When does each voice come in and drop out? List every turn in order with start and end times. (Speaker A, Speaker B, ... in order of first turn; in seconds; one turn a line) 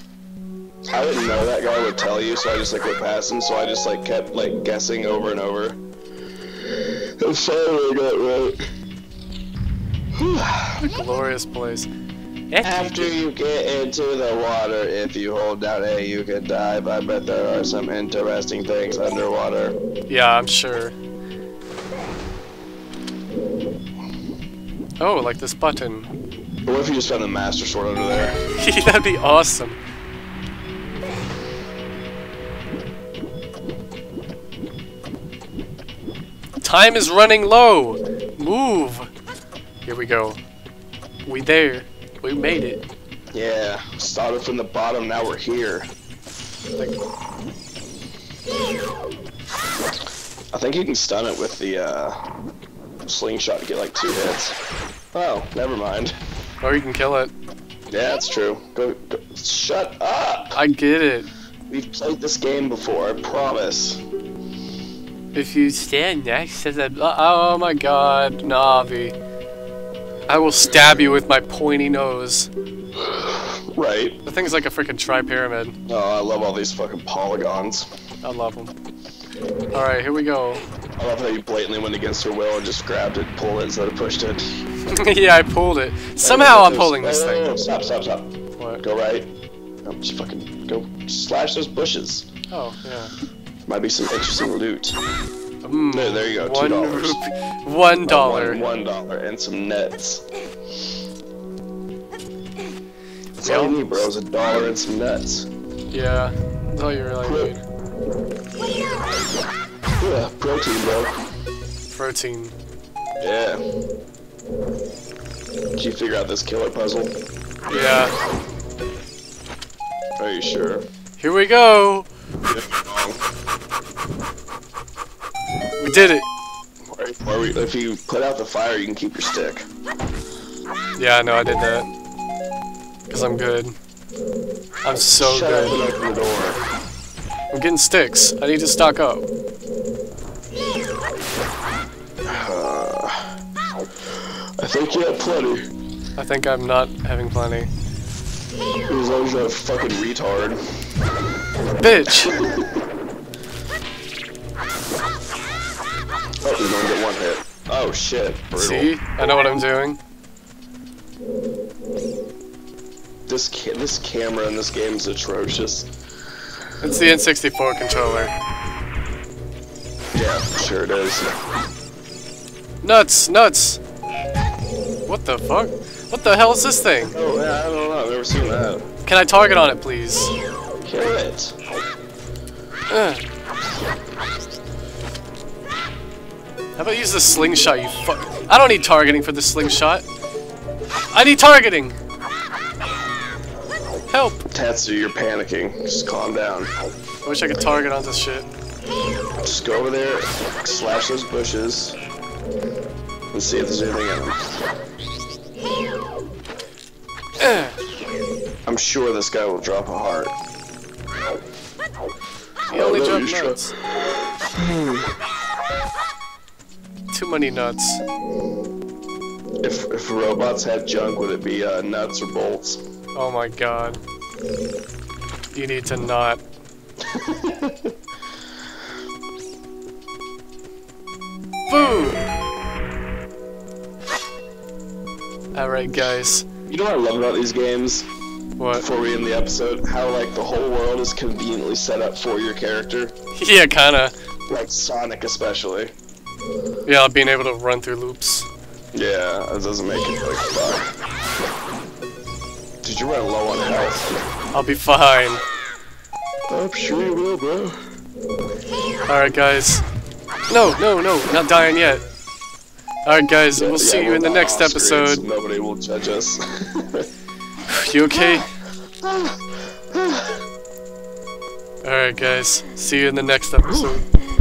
Speaker A: 0.9-5.8
Speaker A: 6.7-8.6
Speaker A: 10.2-10.8
Speaker B: 10.8-11.9
Speaker B: 12.5-13.2
Speaker A: 12.6-19.8
Speaker B: 20.1-20.9
Speaker B: 25.0-26.1
Speaker A: 26.6-28.4
Speaker B: 28.6-29.8
Speaker B: 36.6-39.1
Speaker B: 39.9-40.4
Speaker B: 41.2-42.8
Speaker A: 43.3-45.9
Speaker A: 50.5-52.2
Speaker A: 53.1-54.6
Speaker A: 55.1-56.1
Speaker B: 56.6-57.3
Speaker A: 57.9-60.6
Speaker B: 60.5-61.3
Speaker A: 61.7-64.0
Speaker B: 65.3-69.2
Speaker B: 70.3-72.5
Speaker A: 73.0-74.2
Speaker B: 74.2-75.8
Speaker A: 75.9-77.9
Speaker B: 78.2-78.7
Speaker B: 79.7-80.6
Speaker A: 81.0-84.5
Speaker B: 84.9-87.6
Speaker A: 86.2-89.3
Speaker A: 89.8-92.3
Speaker B: 92.5-93.1
Speaker A: 93.7-95.0
Speaker B: 95.6-98.6
Speaker A: 95.9-97.2
Speaker A: 98.1-100.2
Speaker A: 103.4-105.5
Speaker B: 103.4-104.1
Speaker B: 105.9-107.6
Speaker A: 107.2-107.5
Speaker A: 110.0-111.1
Speaker B: 111.9-112.5
Speaker A: 113.2-113.6
Speaker A: 115.8-117.2
Speaker B: 117.7-118.1
Speaker A: 117.7-118.0
Speaker A: 120.2-120.8
Speaker B: 121.2-122.1
Speaker A: 122.5-123.2
Speaker B: 125.8-126.3
Speaker A: 126.9-129.6
Speaker B: 131.0-131.9
Speaker B: 133.1-133.8
Speaker B: 134.8-135.8
Speaker A: 134.9-136.6
Speaker B: 137.5-139.2
Speaker A: 142.2-143.3
Speaker A: 144.6-145.6
Speaker B: 146.2-147.7
Speaker A: 148.9-150.6
Speaker B: 151.8-152.3
Speaker A: 152.2-152.6
Speaker A: 156.4-158.9
Speaker B: 158.6-160.0
Speaker A: 163.3-165.9
Speaker B: 166.8-168.3
Speaker A: 170.1-171.3
Speaker B: 172.8-173.8
Speaker B: 175.1-177.1
Speaker A: 177.0-178.9
Speaker B: 179.1-180.3
Speaker A: 180.8-181.6
Speaker B: 182.9-183.2
Speaker B: 186.8-190.1
Speaker B: 191.1-192.0
Speaker B: 194.1-194.4
Speaker A: 194.5-196.7
Speaker B: 197.2-198.5
Speaker A: 199.4-202.0
Speaker A: 203.3-204.4
Speaker B: 207.4-207.8
Speaker A: 208.7-210.4
Speaker A: 212.7-213.6
Speaker B: 212.7-213.7
Speaker A: 214.6-215.1
Speaker B: 217.1-218.0
Speaker A: 219.6-222.8
Speaker B: 223.1-224.0
Speaker B: 225.5-226.4
Speaker A: 227.0-227.9
Speaker B: 231.7-232.3
Speaker B: 235.6-236.5
Speaker A: 236.7-238.1
Speaker B: 238.6-238.8
Speaker A: 238.8-243.1
Speaker B: 243.3-244.1
Speaker A: 244.5-245.9
Speaker B: 246.8-248.5
Speaker A: 248.9-250.9
Speaker A: 252.8-254.2
Speaker B: 254.5-255.4
Speaker A: 256.5-257.9
Speaker B: 259.1-259.8
Speaker B: 260.5-262.0
Speaker B: 263.1-265.2
Speaker A: 263.6-267.1
Speaker B: 267.7-268.5
Speaker A: 269.0-269.4
Speaker A: 269.9-270.4
Speaker B: 271.8-274.0